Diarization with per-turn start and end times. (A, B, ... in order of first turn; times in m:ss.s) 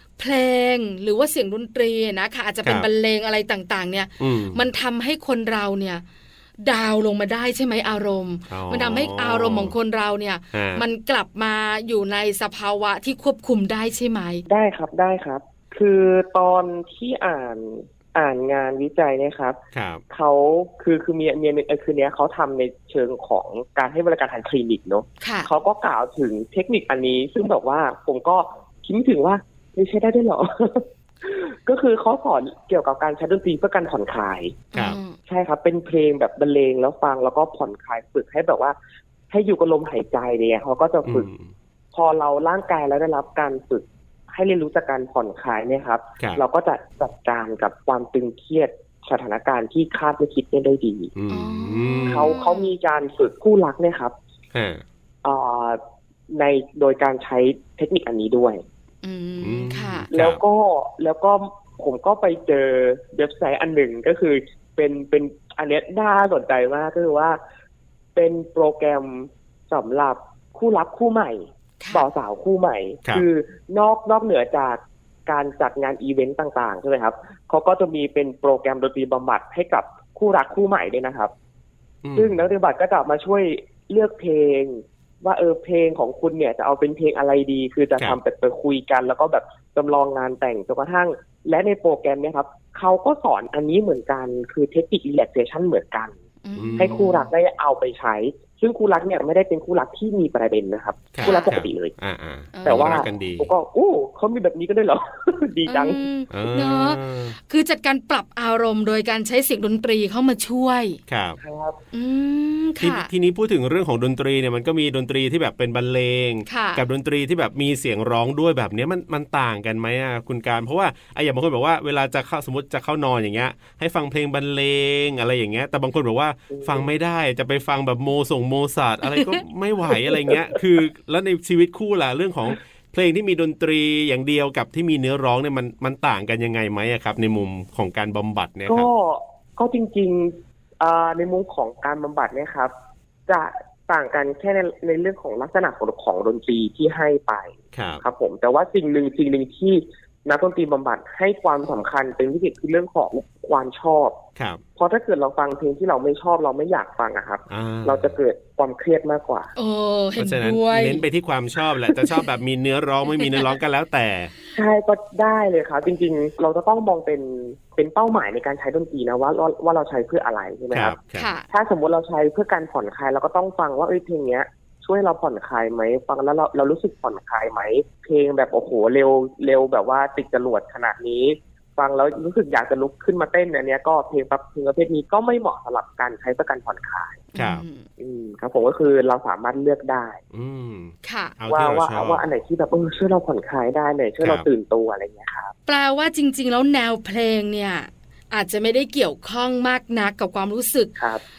0:00.2-0:06.0 A
0:04.2-0:04.6 B
0:06.6-0:14.4 A
0:08.5-0:09.7 B
0:10.5-0:10.8 B
0:14.5-0:19.6 C
0:19.7-0:20.0 B
0:20.1-0:34.6 C
0:25.2-0:25.5 A
0:34.7-0:35.2 A
0:35.3-0:38.7 C
0:39.3-0:41.3 C
0:41.0-0:41.5 B
0:41.9-0:51.1 C
0:51.1-0:52.4 B
0:51.3-0:52.7 A
0:52.1-0:54.1 C
0:54.5-0:54.8 B
0:55.2-0:55.8 C
0:56.3-0:58.6 C
0:59.0-1:00.1 A
0:59.4-1:00.4 B
1:00.1-1:07.4 C
1:08.2-1:21.3 C
1:11.8-1:12.0 A
1:22.0-1:22.4 B
1:22.1-1:36.1 C
1:36.4-1:37.3 A
1:36.5-1:37.1 B
1:36.8-1:41.9 C
1:41.1-1:43.5 B
1:41.2-1:41.5 A
1:42.5-1:43.1 A
1:42.6-1:46.0 C
1:45.7-1:51.0 A
1:46.3-1:47.4 B
1:51.1-1:51.4 B
1:51.4-1:51.8 C
1:51.9-1:53.1 A
1:52.8-2:18.9 B
1:56.5-1:56.8 A
2:06.5-2:06.9 C
2:18.6-2:22.7 C
2:23.3-2:34.2 C
2:27.7-2:28.0 B
2:34.4-2:34.6 B
2:34.8-2:39.5 C
2:37.5-2:38.2 B
2:39.6-2:41.0 A
2:40.2-2:44.3 B
2:43.2-2:43.5 A
2:44.5-2:51.0 C
2:50.7-2:51.3 B
2:51.2-2:51.4 A
2:51.5-3:07.2 C
3:07.3-3:07.8 A
3:07.4-3:07.6 B
3:08.0-3:10.2 C
3:10.3-3:12.2 B
3:11.0-3:11.3 A
3:11.5-3:15.5 C
3:14.2-3:14.5 B
3:15.7-3:20.9 A
3:21.0-3:21.2 C